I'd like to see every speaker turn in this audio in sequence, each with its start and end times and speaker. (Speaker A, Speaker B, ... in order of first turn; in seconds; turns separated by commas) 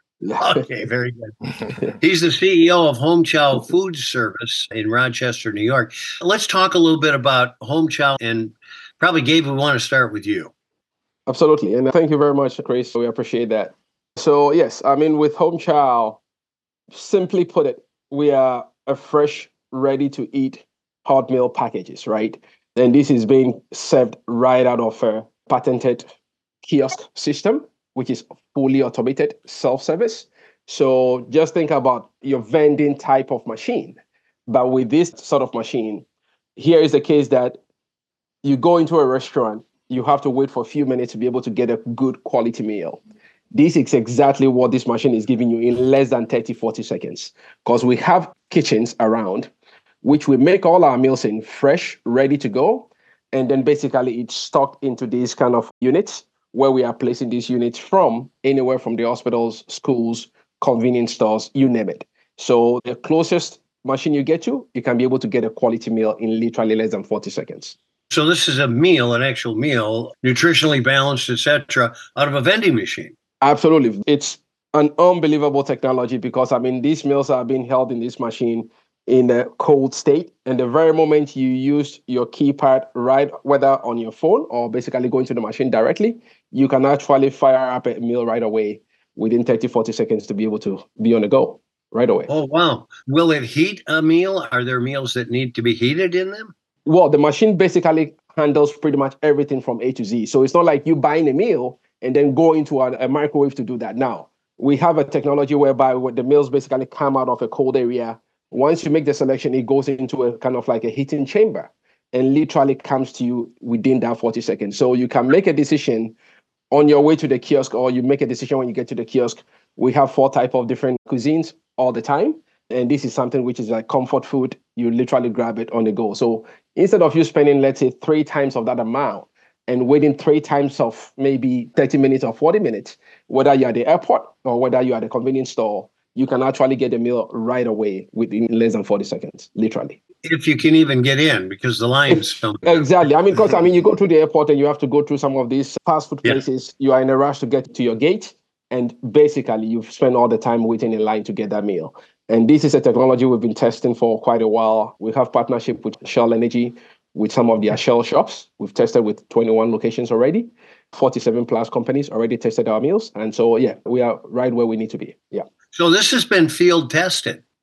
Speaker A: 0.2-0.6, Speaker B: 0.4-1.3, Speaker B: 1.9-10.5, Speaker A: 11.3-16.2, Speaker A: 16.9-36.0, Speaker A: 36.6-37.6, Speaker A: 38.4-43.0, Speaker A: 43.5-49.5, Speaker A: 50.0-67.8, Speaker B: 68.1-73.1, Speaker A: 73.4-92.3, Speaker B: 92.3-96.5, Speaker A: 96.9-116.2, Speaker A: 116.7-140.0, Speaker B: 140.2-142.9, Speaker A: 142.1-165.4, Speaker B: 165.7-167.4